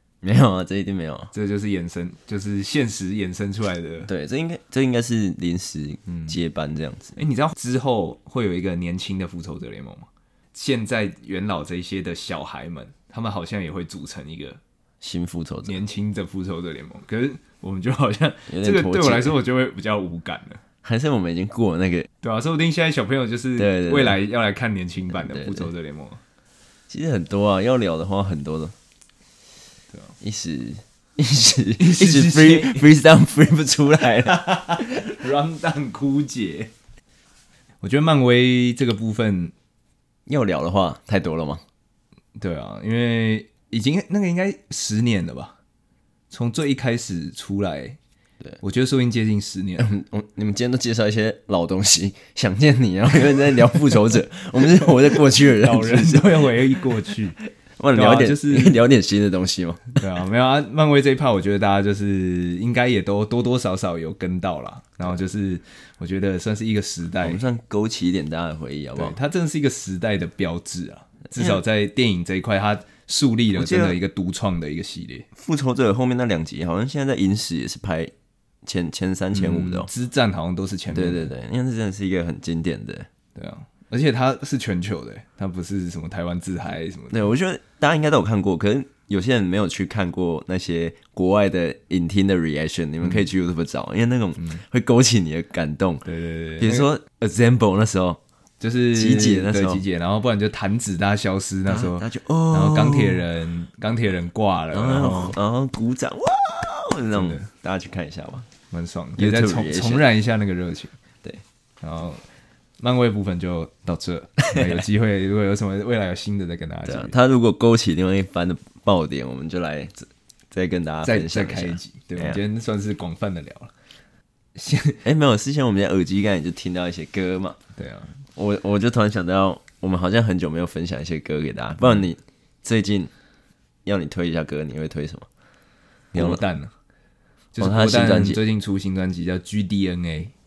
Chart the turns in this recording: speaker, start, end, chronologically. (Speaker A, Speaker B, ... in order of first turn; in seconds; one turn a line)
Speaker A: 0.2-1.3
Speaker B: 1.3-4.1
Speaker A: 4.1-7.2
Speaker B: 7.2-14.6
Speaker A: 15.0-15.8
Speaker B: 15.7-20.6
Speaker A: 18.5-19.4
Speaker A: 20.8-22.1
Speaker B: 22.2-26.2
Speaker A: 23.6-24.1
Speaker A: 25.2-25.7
Speaker A: 26.9-28.7
Speaker A: 30.2-34.4
Speaker B: 31.8-32.9
Speaker B: 34.2-36.7
Speaker B: 37.8-39.5
Speaker A: 40.3-41.6
Speaker B: 42.4-45.5
Speaker B: 46.3-48.0
Speaker B: 48.6-49.9
Speaker A: 49.8-56.9
Speaker B: 54.8-57.4
Speaker A: 57.8-60.0
Speaker B: 57.9-58.8
Speaker B: 59.9-67.4
Speaker A: 67.2-69.2
Speaker B: 69.0-75.2
Speaker A: 73.5-74.0
Speaker A: 75.3-78.1
Speaker A: 78.6-79.9
Speaker B: 79.3-81.3
Speaker A: 80.9-83.1
Speaker B: 83.3-87.2
Speaker A: 87.1-96.0
Speaker B: 96.0-96.9
Speaker A: 96.6-98.2
Speaker B: 98.6-105.3
Speaker A: 98.9-99.8
Speaker A: 101.7-103.3
Speaker A: 104.7-108.5
Speaker B: 107.1-107.5
Speaker B: 108.7-110.9
Speaker A: 109.2-110.0
Speaker B: 111.8-112.2
Speaker B: 112.8-117.1
Speaker A: 116.9-122.4
Speaker B: 121.0-123.7
Speaker B: 124.5-125.0
Speaker A: 125.0-127.6
Speaker B: 127.8-128.1
Speaker A: 128.3-133.1
Speaker A: 133.8-135.3
Speaker A: 136.1-136.4
Speaker B: 136.1-136.7
Speaker B: 137.5-140.3
Speaker A: 137.6-138.4